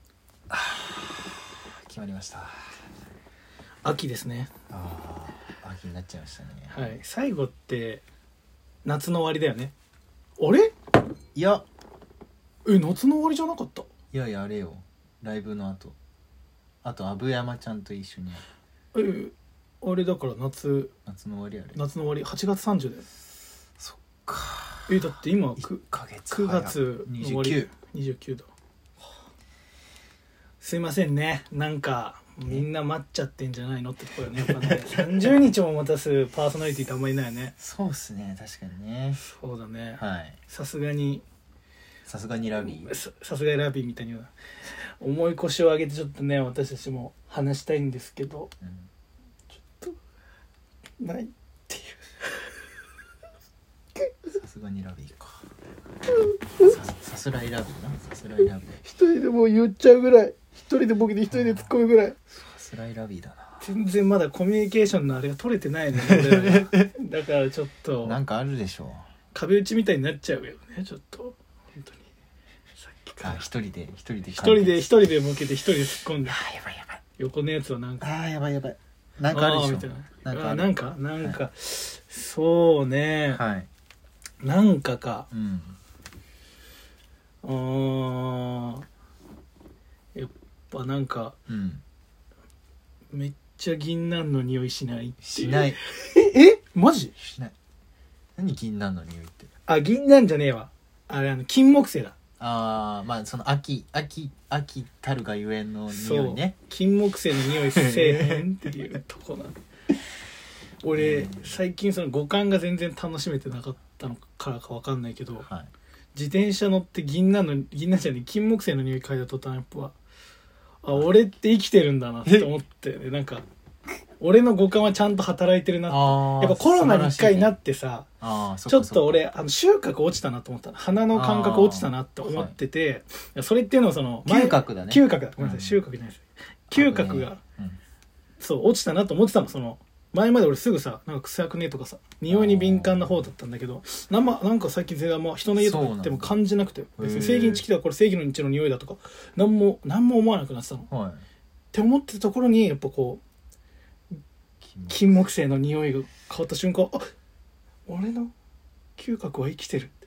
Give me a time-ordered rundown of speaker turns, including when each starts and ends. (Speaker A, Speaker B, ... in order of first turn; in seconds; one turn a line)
Speaker A: 0.5-2.7
Speaker B: 3.8-4.5
Speaker A: 4.7-7.0
Speaker B: 6.7-8.0
Speaker B: 8.8-9.7
Speaker B: 10.4-10.7
Speaker A: 11.3-11.6
Speaker B: 12.6-13.9
Speaker A: 14.1-15.9
Speaker A: 16.8-18.4
Speaker B: 18.9-20.9
Speaker A: 21.1-21.8
Speaker B: 21.7-23.1
Speaker A: 23.8-25.0
Speaker B: 24.9-28.5
Speaker A: 25.6-27.7
Speaker B: 30.6-37.5
Speaker A: 34.4-35.3
Speaker A: 37.6-39.2
Speaker B: 39.2-41.2
Speaker A: 40.0-40.4
Speaker A: 42.0-42.9
Speaker B: 42.6-44.3
Speaker B: 45.0-48.5
Speaker A: 48.6-48.9
Speaker B: 49.6-50.0
Speaker B: 51.0-52.5
Speaker A: 54.3-55.5
Speaker A: 56.6-58.8
Speaker B: 58.8-62.1
Speaker A: 61.3-61.7
Speaker A: 62.3-63.6
Speaker B: 63.6-68.2
Speaker A: 65.9-66.9
Speaker A: 68.0-69.0
Speaker B: 69.3-72.0
Speaker B: 72.8-73.5
Speaker A: 73.2-75.0
Speaker B: 74.4-76.4
Speaker A: 76.2-77.0
Speaker B: 77.2-78.0
Speaker A: 78.0-81.4
Speaker B: 79.3-83.4
Speaker A: 83.3-83.7
Speaker B: 84.4-85.3
Speaker A: 85.3-85.8
Speaker B: 87.4-88.8
Speaker B: 90.1-91.3
Speaker A: 91.5-91.8
Speaker B: 93.1-97.1
Speaker A: 95.2-95.8
Speaker A: 97.2-97.5
Speaker A: 98.4-99.5
Speaker B: 99.7-102.1
Speaker A: 102.4-106.5
Speaker B: 105.9-109.6
Speaker A: 107.4-108.5
Speaker B: 110.8-115.5
Speaker A: 110.9-111.6
Speaker A: 115.4-115.7
Speaker B: 116.1-119.9
Speaker B: 120.8-123.4
Speaker A: 122.2-122.5
Speaker B: 124.2-128.1
Speaker A: 125.9-127.5
Speaker A: 128.2-129.2
Speaker B: 128.7-137.4
Speaker A: 131.1-132.5
Speaker A: 134.2-135.8
Speaker A: 136.7-137.8
Speaker B: 138.4-150.9
Speaker A: 142.3-143.3
Speaker A: 145.6-146.3
Speaker A: 147.0-147.6
Speaker A: 150.9-151.2
Speaker B: 151.7-153.2
Speaker A: 154.6-155.3
Speaker B: 154.9-157.0
Speaker B: 157.9-158.3
Speaker B: 159.0-159.9